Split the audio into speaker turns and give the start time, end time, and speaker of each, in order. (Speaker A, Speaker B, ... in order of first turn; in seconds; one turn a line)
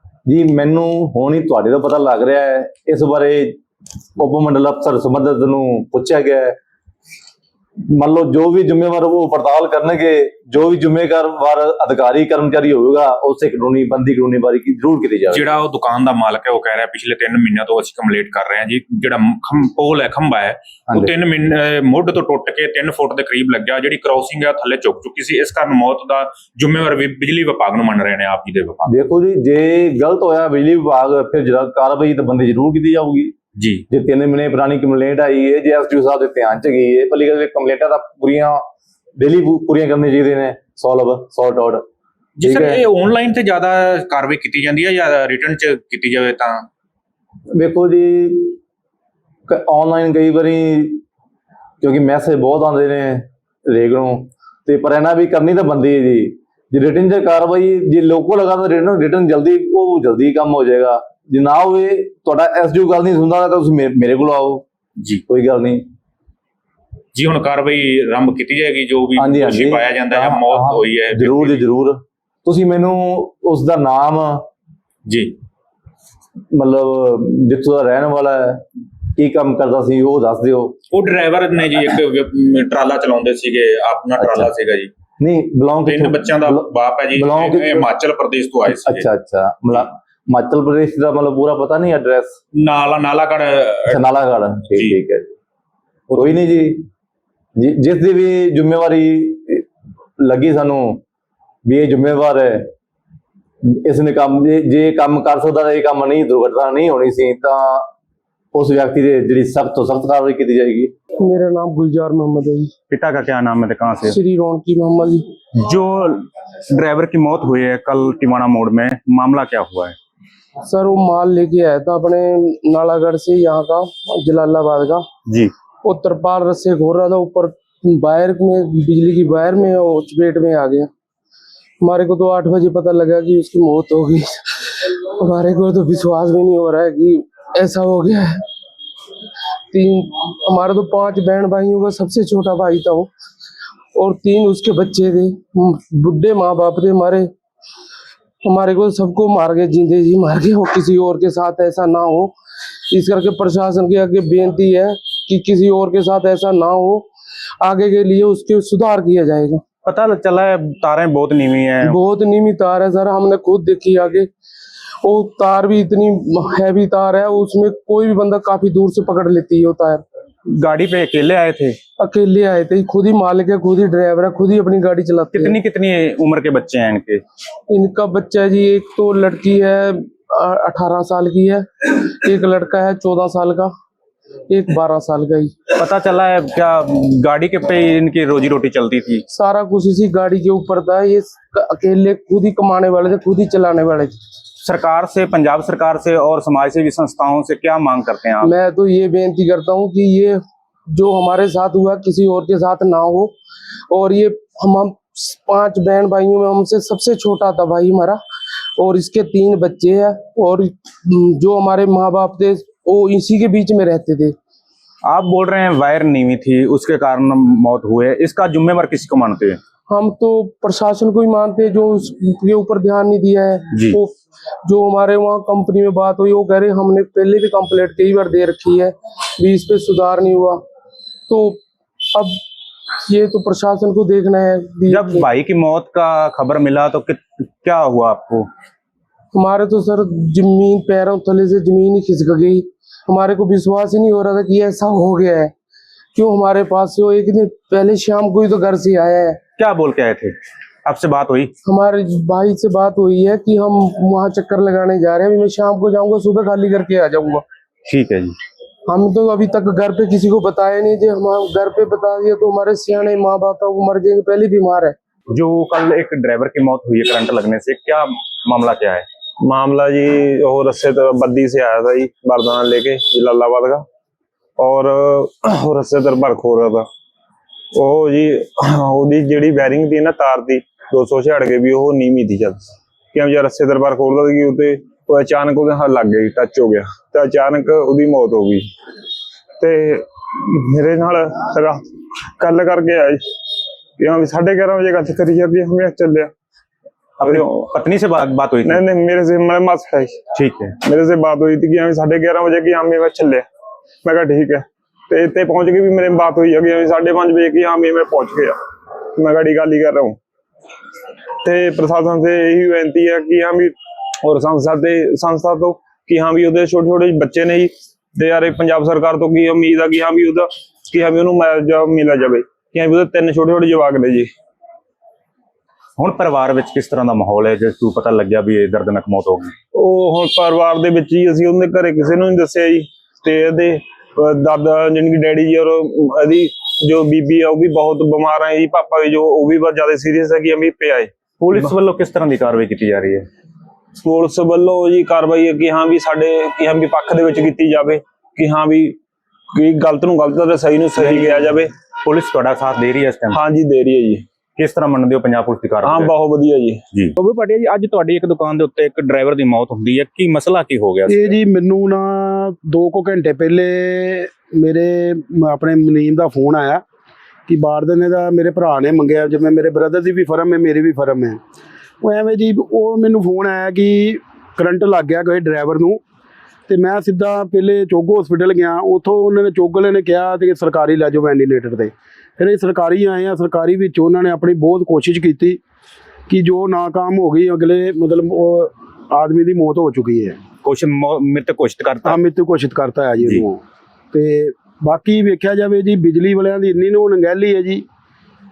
Speaker A: 0.3-3.6
Speaker A: 4.2-6.6
Speaker A: 7.9-15.5
Speaker B: 15.3-28.9
Speaker A: 28.9-33.4
Speaker B: 33.6-33.8
Speaker A: 33.9-38.6
Speaker A: 39.2-41.8
Speaker B: 42.4-46.6
Speaker A: 42.4-42.9
Speaker A: 47.6-48.6
Speaker A: 49.5-51.0
Speaker A: 51.8-64.7
Speaker A: 65.3-65.9
Speaker B: 67.1-71.5
Speaker A: 69.2-74.5
Speaker A: 76.5-80.8
Speaker B: 80.9-84.9
Speaker A: 84.2-84.5
Speaker A: 85.2-87.9
Speaker B: 85.9-89.0
Speaker A: 88.7-92.4
Speaker B: 92.5-93.9
Speaker A: 93.9-95.3
Speaker A: 96.2-96.9
Speaker A: 97.6-99.7
Speaker A: 100.2-101.0
Speaker A: 101.7-102.7
Speaker A: 103.7-107.9
Speaker A: 108.5-110.9
Speaker C: 111.2-112.7
Speaker D: 112.9-114.2
Speaker C: 114.0-115.2
Speaker D: 115.6-120.0
Speaker C: 120.6-125.0
Speaker C: 125.8-130.9
Speaker C: 131.8-138.4
Speaker C: 139.7-143.1
Speaker C: 143.9-147.3
Speaker C: 148.4-152.3
Speaker C: 152.9-157.1
Speaker C: 157.6-159.6
Speaker D: 159.8-162.0
Speaker C: 161.8-164.3
Speaker C: 165.0-170.0
Speaker D: 170.5-171.8
Speaker C: 172.0-175.6
Speaker D: 175.3-177.2
Speaker C: 177.7-183.7
Speaker C: 184.5-185.5
Speaker D: 185.8-189.2
Speaker C: 189.3-194.2
Speaker D: 194.6-198.5
Speaker C: 198.4-203.3
Speaker C: 203.9-208.2
Speaker C: 208.8-214.3
Speaker D: 215.1-219.6
Speaker C: 219.9-230.6
Speaker C: 231.3-231.6
Speaker C: 233.1-235.3
Speaker D: 234.9-238.5
Speaker C: 239.3-245.5
Speaker C: 246.2-249.4
Speaker D: 249.6-251.5
Speaker C: 251.7-257.4
Speaker D: 257.9-258.4
Speaker C: 258.9-265.0
Speaker D: 265.3-269.1
Speaker E: 269.4-273.9
Speaker E: 274.6-276.9
Speaker E: 277.7-288.7
Speaker E: 289.6-291.8
Speaker E: 292.4-293.2
Speaker E: 294.0-296.3
Speaker D: 297.2-298.8
Speaker E: 297.2-297.7
Speaker E: 298.6-300.2
Speaker D: 300.4-300.8
Speaker E: 300.8-303.4
Speaker E: 304.0-308.6
Speaker E: 309.1-310.2
Speaker E: 311.4-324.3
Speaker D: 326.0-329.5
Speaker E: 329.7-341.7
Speaker D: 341.4-343.2
Speaker E: 344.0-349.0
Speaker E: 349.5-351.7
Speaker D: 351.0-351.3
Speaker D: 352.1-353.4
Speaker E: 353.3-354.2
Speaker D: 354.6-356.1
Speaker E: 355.8-356.8
Speaker D: 356.9-361.4
Speaker F: 361.1-366.8
Speaker F: 367.5-371.4
Speaker F: 372.0-376.0
Speaker F: 376.7-385.6
Speaker F: 386.3-390.4
Speaker D: 390.6-392.2
Speaker F: 392.0-393.6
Speaker F: 394.1-397.8